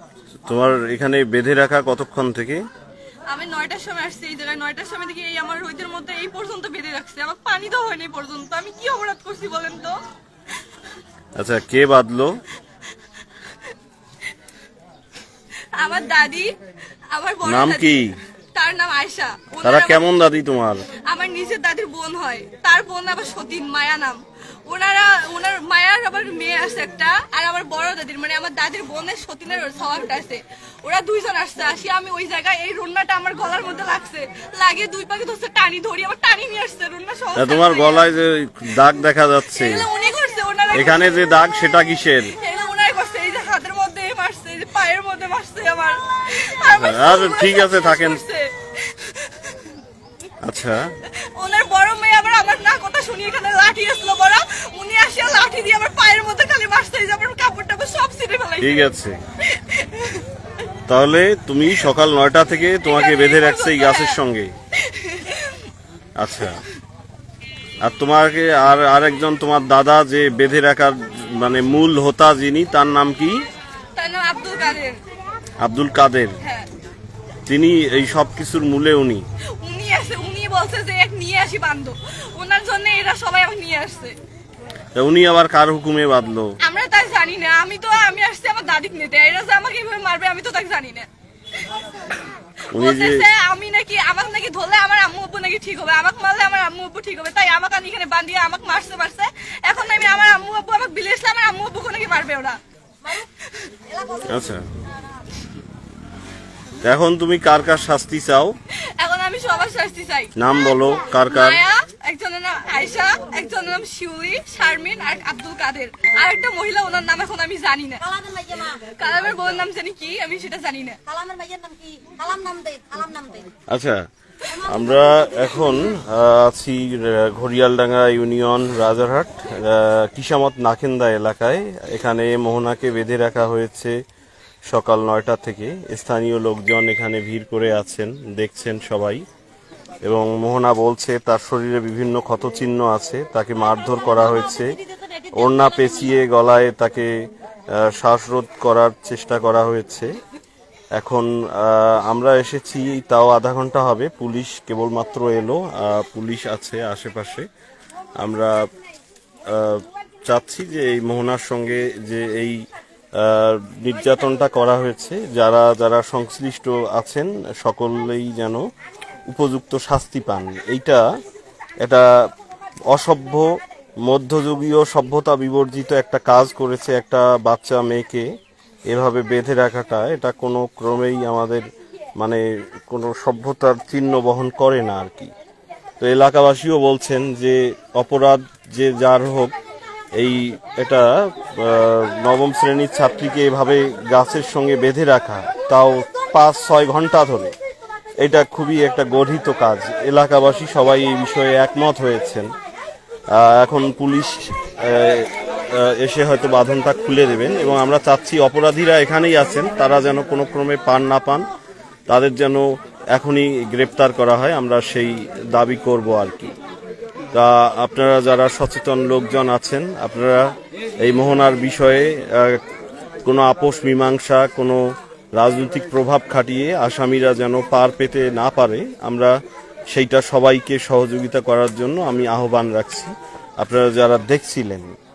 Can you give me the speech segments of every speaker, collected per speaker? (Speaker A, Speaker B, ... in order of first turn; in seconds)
Speaker A: 0.5-2.6, 11.4-12.4, 17.4-18.1, 19.6-20.9, 37.4-39.9, 40.7-42.4, 46.7-48.2, 50.4-50.9, 58.6-59.2, 60.9-64.5, 66.2-66.6, 67.8-73.5, 75.6-76.4, 77.5-79.3, 85.0-86.5, 92.7-93.2, 104.2-104.6, 106.8-108.5, 110.4-111.6, 123.7-133.9, 134.7-139.2, 140.0-144.8, 145.3-150.1, 150.9-157.5, 158.2-158.6, 159.5-162.6, 163.2-168.7, 169.3-171.0, 171.8-172.1, 172.9-173.5, 174.1-178.3, 178.9-181.6, 182.2-185.3, 186.0-189.6, 190.2-197.6, 198.2-202.5, 203.3-211.5, 212.1-216.6, 217.3-222.6, 223.2-224.8, 225.3-229.3, 229.9-234.9
Speaker B: 3.3-10.0, 15.7-16.5, 17.1-18.0, 18.5-20.0, 21.1-38.1, 39.5-41.2, 42.3-49.7, 51.2-58.8, 59.4-60.3, 62.8-64.2, 64.8-65.6, 74.0-75.0, 76.4-76.7, 79.6-84.2, 86.6-91.1, 92.8-102.6, 103.2-103.7, 109.0-110.3, 111.3-118.0, 118.7-121.0
Speaker C: 103.9-104.4, 118.1-118.8, 121.1-123.5, 124.6-124.9